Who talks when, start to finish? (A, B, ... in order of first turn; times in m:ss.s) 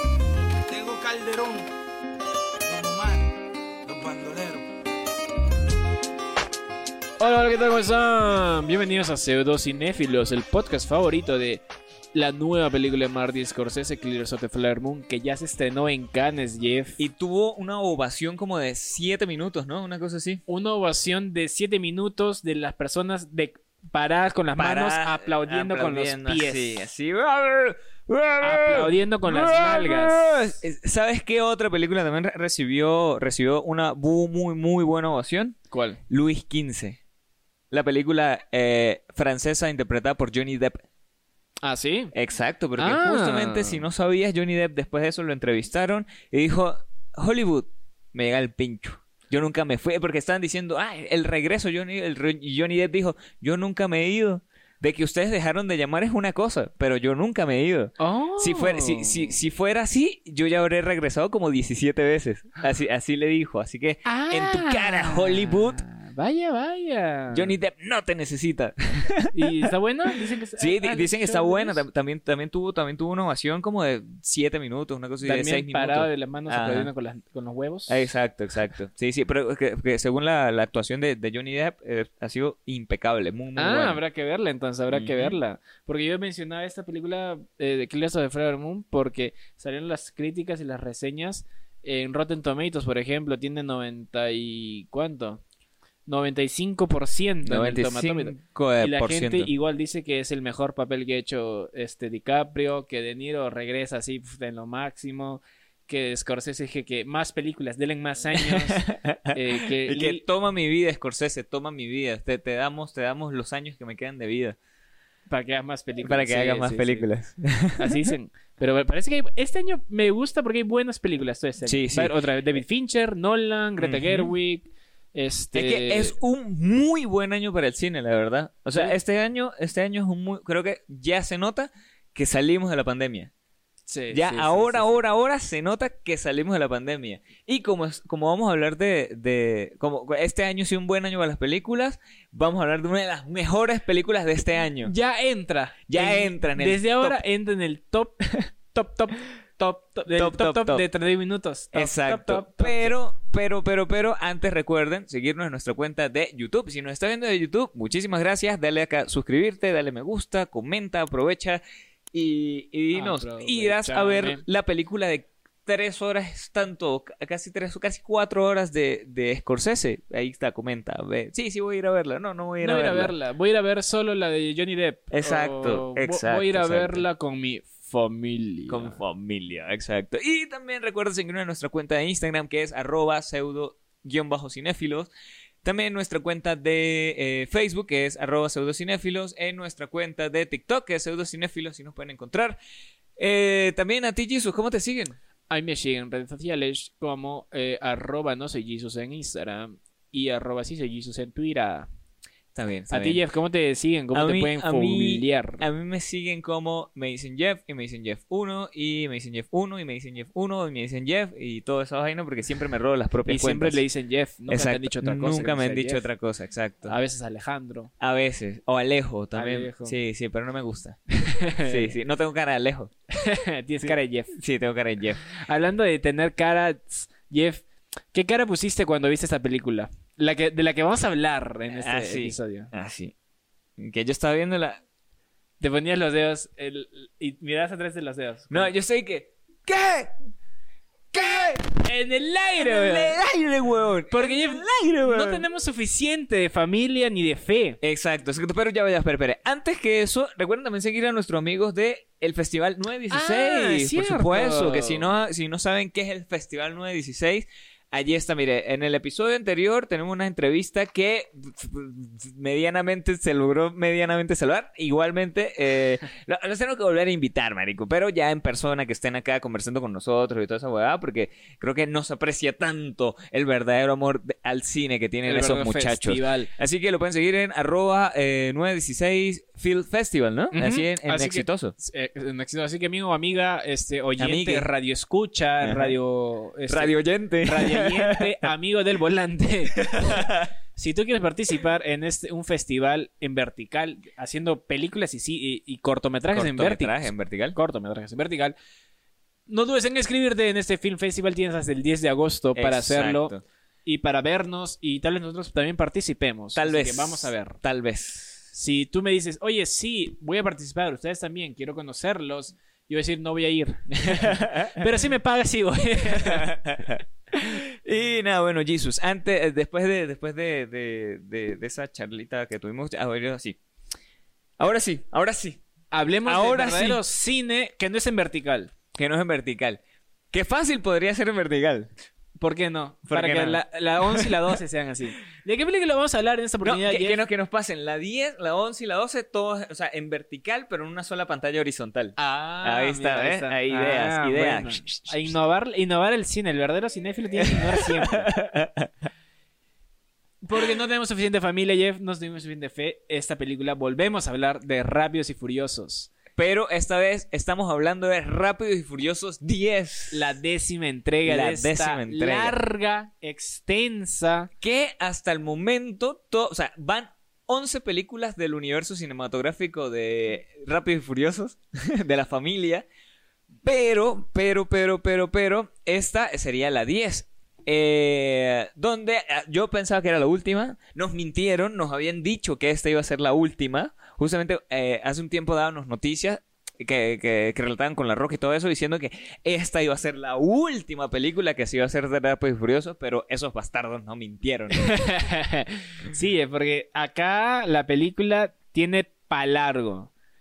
0:00.7-0:01.7 A
0:02.6-0:03.3 A
0:03.8-0:04.6 A
0:07.2-0:11.6 B
0:12.1-0:17.0 B
0:17.0-0:20.4 C
0:20.5-0:26.8 B
0:24.6-0:35.6 C
0:28.4-0:30.6 B
0:35.7-0:36.0 B
0:36.1-0:37.0 C
0:37.7-0:40.8 C
0:41.6-0:42.1 B
0:42.1-1:05.8 C
0:42.8-0:43.8 B
0:58.0-0:59.3 B
1:04.0-1:07.5 B
1:07.3-1:09.6 C
1:09.3-1:11.8 B
1:10.6-1:16.9 C
1:15.2-1:18.0 B
1:17.9-1:24.0 C
1:23.6-1:35.4 B
1:24.9-1:25.4 C
1:36.1-1:50.2 B
1:37.4-1:39.5 C
1:48.3-1:54.6 C
1:55.3-1:57.1 B
1:56.0-1:58.1 C
1:57.8-2:06.2 B
2:01.6-2:02.1 C
2:03.8-2:04.3 C
2:05.5-2:13.3 C
2:13.9-2:15.0 B
2:14.1-2:24.9 C
2:24.8-2:33.0 B
2:25.9-2:27.2 C
2:30.1-2:30.8 C
2:31.7-2:41.6 C
2:42.1-2:53.1 C
2:42.9-2:44.4 B
2:52.6-2:59.0 B
2:55.1-2:57.0 C
2:58.7-3:05.1 C
3:05.6-3:12.6 C
3:13.2-3:15.2 C
3:15.5-3:21.9 B
3:22.5-3:23.2 C
3:22.9-3:25.6 B
3:24.1-3:33.8 C
3:33.3-3:36.0 B
3:34.5-3:37.0 C
3:36.8-3:37.9 B
3:38.0-3:41.0 C
3:39.3-3:39.9 B
3:41.1-3:41.9 B
3:41.6-3:42.9 C
3:43.1-3:44.3 B
3:43.8-3:45.2 C
3:45.3-3:52.7 B
3:51.7-3:53.1 C
3:53.8-3:54.8 C
3:55.6-3:58.7 B
3:58.5-4:00.1 C
4:01.1-4:01.6 C
4:01.2-4:03.2 B
4:02.6-4:05.4 C
4:04.1-4:07.8 B
4:07.8-4:41.7 C
4:13.1-4:15.1 B
4:35.2-4:36.5 B
4:40.5-4:58.6 B
4:44.2-4:44.7 C
4:45.6-4:45.9 C
4:46.7-4:48.4 C
4:49.8-4:50.5 C
4:56.3-4:57.6 C
4:59.5-5:07.6 B
5:02.5-5:03.4 C
5:06.5-5:08.4 C
5:08.5-5:16.5 B
5:14.1-5:14.8 C
5:16.1-5:23.6 C
5:24.6-5:25.6 C
5:25.9-5:28.7 B
5:26.2-5:27.0 C
5:28.9-5:29.8 C
5:30.3-5:31.9 C
5:32.4-5:37.2 B
5:33.1-5:34.5 C
5:36.6-5:45.3 C
5:42.2-5:48.3 B
5:47.4-5:48.9 C
5:50.4-5:56.1 B
5:56.4-6:00.4 C
6:00.1-6:04.5 B
6:01.2-6:02.6 C
6:04.6-6:12.8 C
6:13.6-6:34.9 C
6:34.7-6:40.1 B